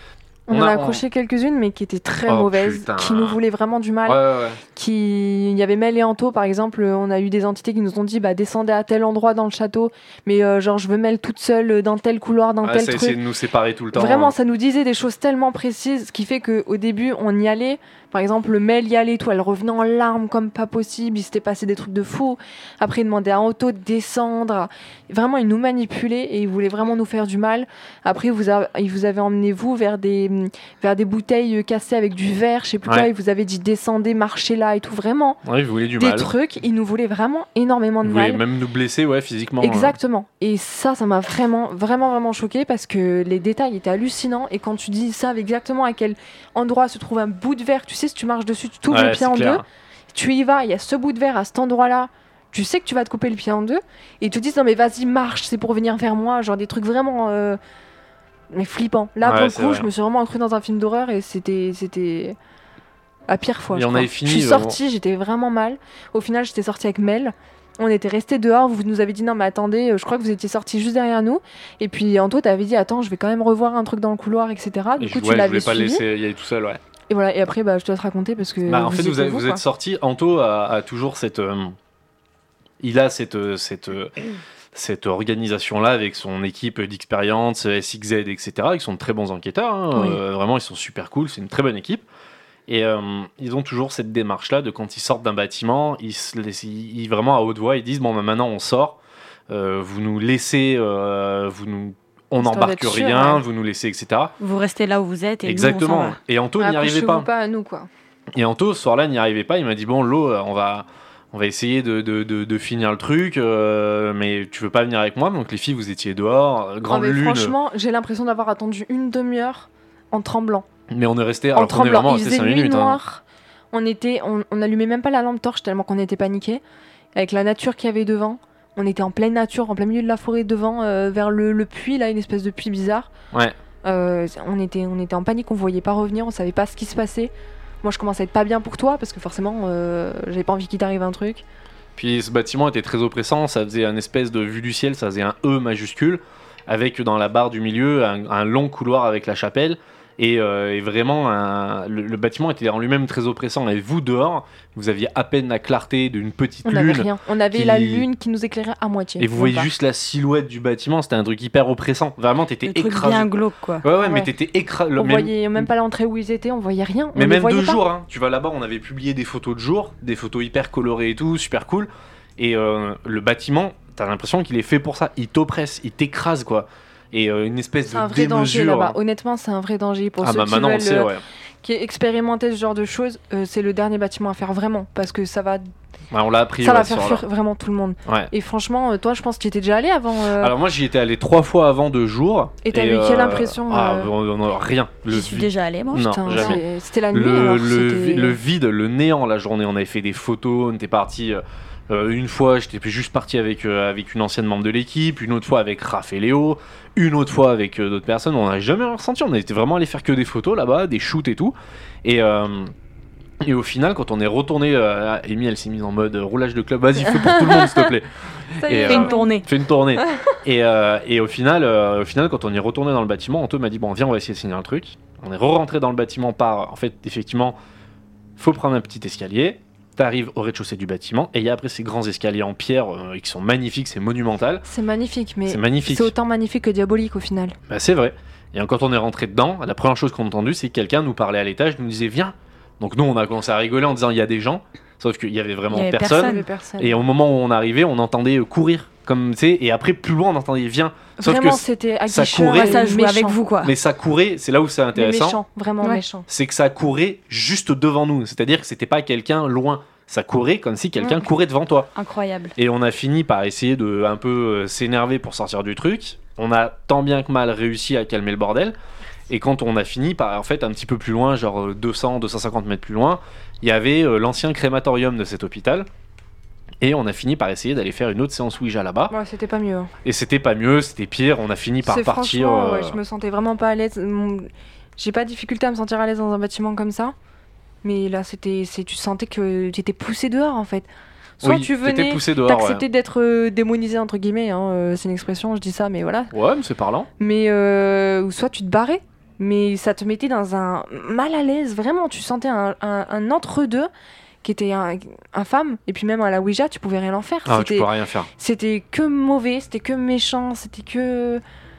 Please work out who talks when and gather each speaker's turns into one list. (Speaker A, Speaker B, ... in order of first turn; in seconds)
Speaker A: 0.5-4.2, 4.7-13.2, 13.9-35.4, 36.0-38.4, 39.6-57.6, 58.5-62.4, 63.3-76.0, 77.1-79.6, 102.4-103.4, 106.6-107.9, 116.9-120.7, 121.5-126.6, 127.1-133.1, 133.8-141.4, 156.6-159.7, 164.0-164.3, 164.9-167.8, 177.9-185.6, 186.6-190.5, 192.6-194.1, 196.1-198.4, 217.1-217.9, 218.6-219.3, 234.6-237.6, 246.1-247.0, 251.2-253.4, 254.9-256.3, 279.1-279.9, 281.8-287.1, 287.8-290.9, 291.4-296.3, 297.2-303.9, 304.4-311.4
Speaker B: 0.5-1.0, 2.3-3.4, 4.0-4.6, 12.6-14.3, 35.4-36.3, 38.0-40.0, 48.9-49.6, 59.2-59.9, 63.7-64.8, 75.0-76.8, 78.7-81.8, 82.8-84.2, 84.7-92.0, 92.7-104.3, 105.4-107.3, 108.3-117.5, 120.9-123.0, 141.9-158.1, 159.2-163.3, 163.8-165.7, 167.1-179.0, 180.2-181.2, 186.1-187.2, 188.0-188.3, 190.4-212.7, 213.4-227.6, 228.4-234.6, 235.5-236.1, 237.7-252.8, 253.6-255.4, 256.3-261.9, 262.6-268.7, 269.3-275.9, 276.8-279.1, 280.0-283.0, 291.4-292.8, 296.3-297.1, 307.4-308.3
Speaker C: 104.4-106.2, 162.6-163.9, 195.1-196.6, 218.9-219.5, 245.7-246.4, 252.5-253.7, 261.9-262.5